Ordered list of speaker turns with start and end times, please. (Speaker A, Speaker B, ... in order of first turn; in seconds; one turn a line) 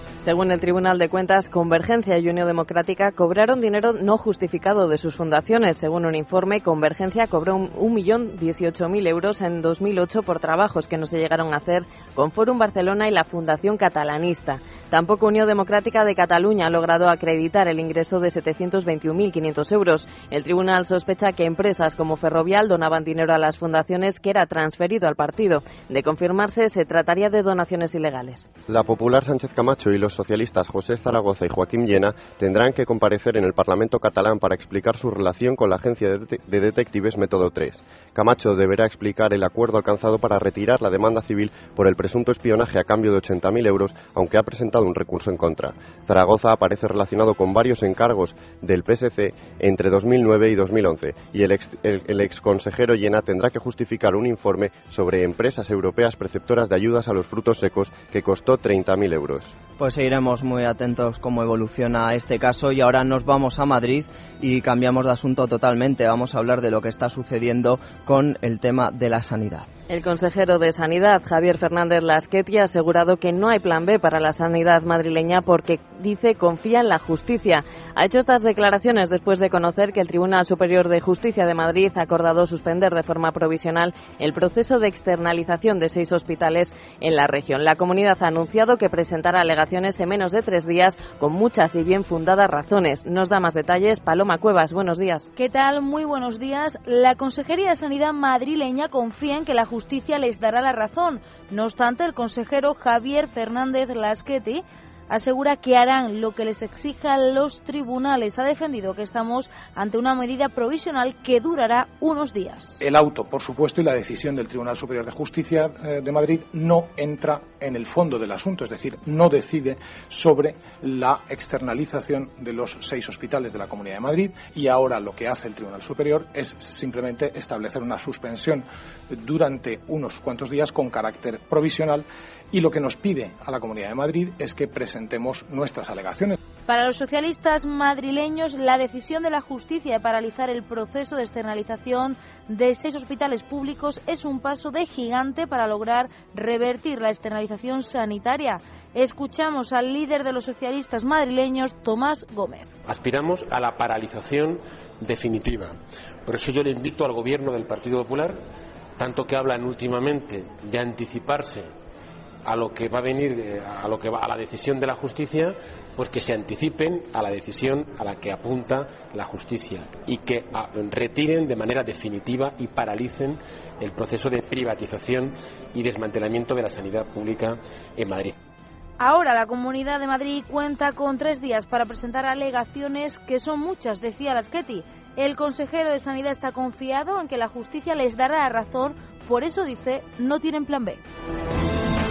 Speaker A: 0.2-28.5
Speaker B: 28.7-59.5
Speaker C: 59.8-69.7
Speaker A: 69.9-95.3
Speaker D: 95.3-112.8
Speaker E: 112.8-136.4
Speaker D: 136.7-152.7
Speaker F: 152.9-155.7
Speaker F: 156.3-158.3
Speaker F: 159.0-161.6
Speaker F: 162.5-178.3
Speaker D: 179.0-191.0